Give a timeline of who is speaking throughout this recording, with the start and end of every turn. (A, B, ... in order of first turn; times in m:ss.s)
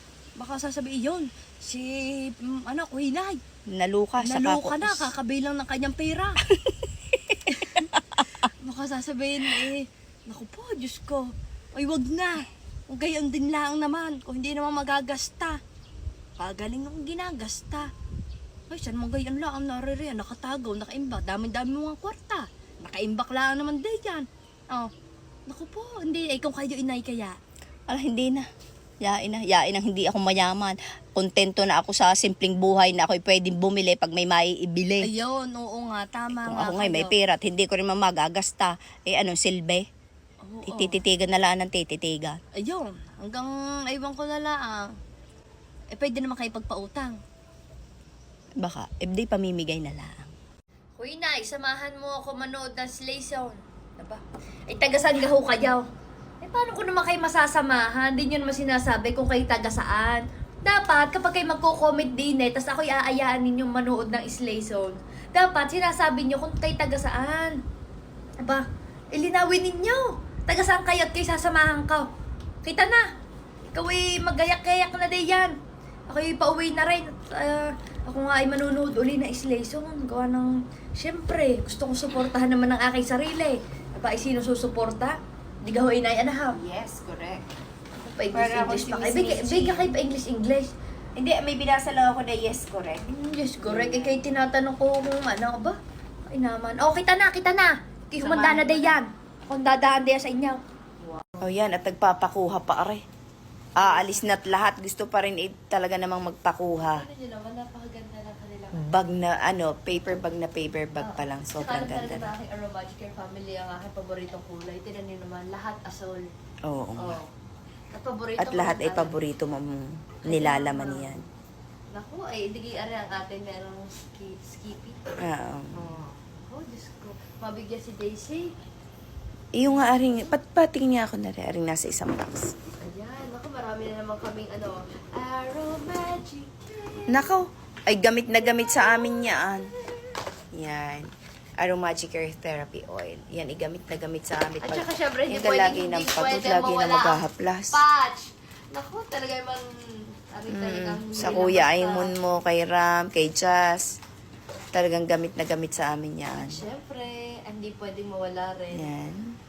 0:00.4-0:03.4 A
0:03.7-0:05.1 B
0:04.2-0:06.4 A
0:06.5-0:08.3 B
0:07.5-0:07.9 A
0:08.4-0:15.6 A
0:16.4-0:17.9 A
0:18.7-0:24.9 A
0:25.5-0:27.4 A
0:27.9-0:28.5 B
0:29.0-0:35.1 B
0:35.0-0:37.1 A
0:36.3-0:39.9 B
0:40.4-0:41.0 A
0:40.7-0:42.4 B
0:42.6-0:44.9 A
0:45.9-0:47.2 A
0:48.6-0:50.3 B
0:51.0-0:55.8 A
0:56.4-1:07.6 A
1:08.4-1:12.1 A
1:12.6-1:13.0 A
1:13.7-1:15.6 A
1:16.1-1:26.6 A
1:26.5-1:27.4 B
1:28.0-1:30.7 A
1:28.3-1:30.0 B
1:31.2-1:33.0 B
1:33.1-1:35.8 A
1:33.6-1:34.2 B
1:36.3-1:40.6 A
1:38.2-1:39.0 B
1:41.4-1:43.0 B
1:43.8-1:44.3 A
1:43.8-1:47.0 B
1:46.8-1:48.8 A
1:48.7-1:52.3 B
1:51.0-1:56.3 A
1:56.6-1:57.2 B
1:57.0-1:57.3 A
1:57.9-1:59.2 A
1:58.4-2:01.2 B
2:00.3-2:01.2 A
2:01.9-2:05.0 A
2:05.2-2:05.7 B
2:05.7-2:08.5 A
2:09.5-2:12.5 B
2:12.7-2:17.3 A
2:17.1-2:19.7 B
2:18.4-2:20.2 A
2:20.5-2:27.8 B
2:24.6-2:32.1 A
2:30.5-2:34.0 B
2:34.7-2:36.6 B
2:36.3-2:38.9 A
2:38.7-2:39.4 B